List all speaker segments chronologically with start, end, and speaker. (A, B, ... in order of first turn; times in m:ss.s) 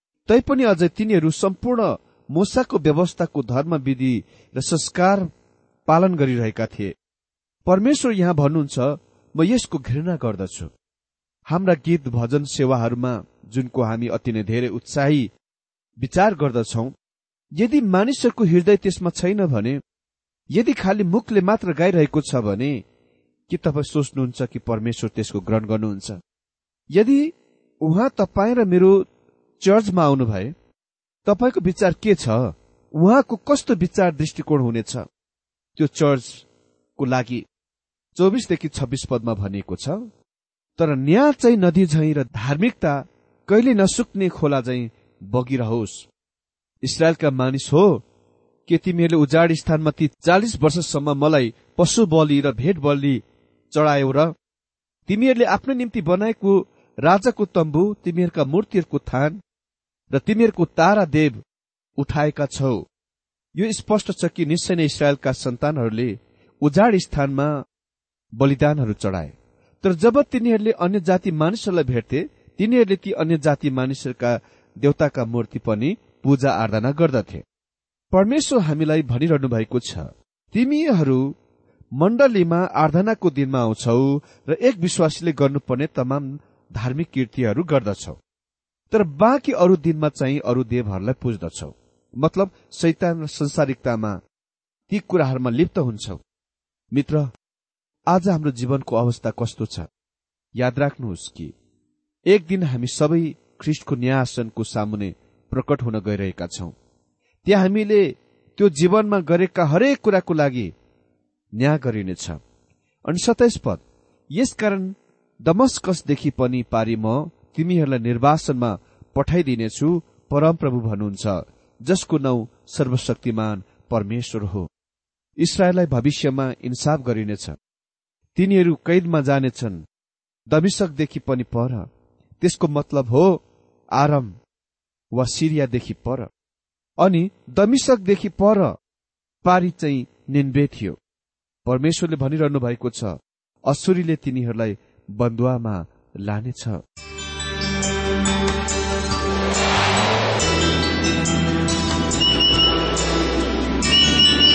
0:00.3-0:05.3 A
0:05.9-0:06.9 A
0:07.7-0:10.7 A
0:11.5-0:15.3 A
0:16.0-0:16.9 A
0:17.6-0:19.8 A
0:20.5-0:22.8 A
0:23.5-0:26.2 A
0:26.9-0:29.0 A
0:29.6-0:30.5 A
0:31.3-0:35.0 A
0:35.8-0:36.5 A
0:37.0-0:37.4 A
0:38.2-0:40.0 A
0:40.8-0:46.1 A
0:46.8-0:48.0 A
0:48.7-0:54.3 A
0:55.1-0:59.4 A
1:00.1-1:01.4 A
1:02.0-1:02.8 A
1:03.6-1:07.5 A
1:08.4-1:17.4 A
1:18.1-1:21.3 A
1:22.0-1:28.2 A
1:28.9-1:34.2 A
1:34.9-1:36.2 A
1:36.9-1:37.3 A
1:38.1-1:39.9 A
1:40.6-1:41.5 A
1:42.3-1:46.7 A
1:47.4-1:48.0 A
1:48.6-1:50.7 A
1:51.6-1:52.4 A
1:53.1-1:53.8 A
1:54.4-1:54.9 A
1:55.5-2:04.7 A
2:05.4-2:07.6 A
2:08.4-2:09.8 A
2:10.5-2:11.9 A
2:12.4-2:13.4 A
2:14.0-2:14.4 A
2:15.1-2:16.3 A
2:17.0-2:18.7 A
2:19.4-2:21.0 A
2:21.7-2:26.8 A